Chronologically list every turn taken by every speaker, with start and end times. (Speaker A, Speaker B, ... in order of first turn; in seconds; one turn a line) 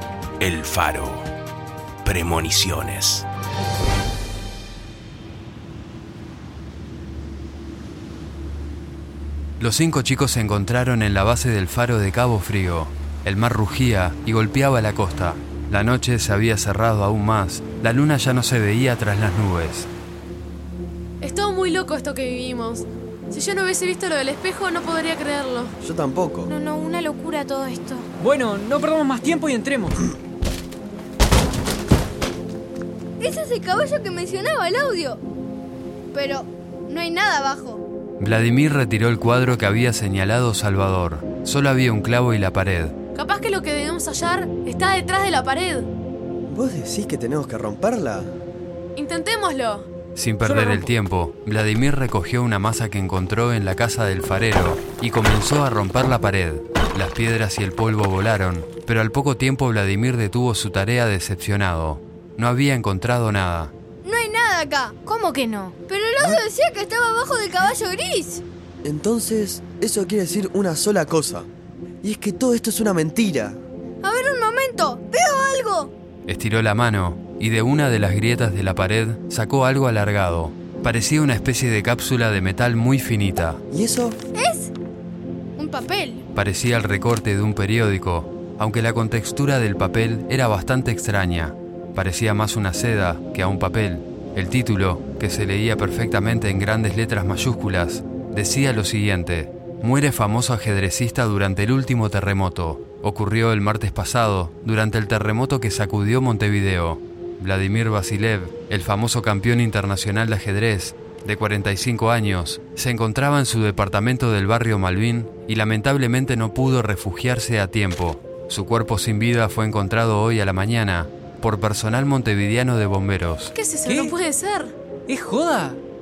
Speaker A: 0.4-1.3
Speaker A: 2.0-3.3
Speaker B: 9.6-19.9
Speaker C: 21.2-25.8
Speaker D: 25.8-26.5
Speaker E: 26.6-28.1
Speaker F: 28.2-30.1
Speaker G: 33.2-35.2
Speaker G: 36.1-37.8
Speaker B: 38.2-42.9
Speaker C: 43.1-45.9
Speaker D: 46.5-48.3
Speaker C: 49.0-49.9
Speaker B: 50.1-63.7
Speaker C: 50.4-50.9
Speaker G: 64.0-65.0
Speaker E: 65.1-65.8
Speaker G: 65.9-68.4
Speaker D: 66.2-66.4
Speaker D: 68.8-71.5
Speaker D: 72.0-73.6
Speaker G: 74.0-75.9
Speaker B: 76.3-83.6
Speaker D: 83.7-84.2
Speaker G: 84.3-84.7
Speaker G: 85.6-86.2
Speaker B: 86.3-123.5
Speaker C: 123.5-124.7
Speaker F: 123.8-124.2
Speaker F: 125.1-125.8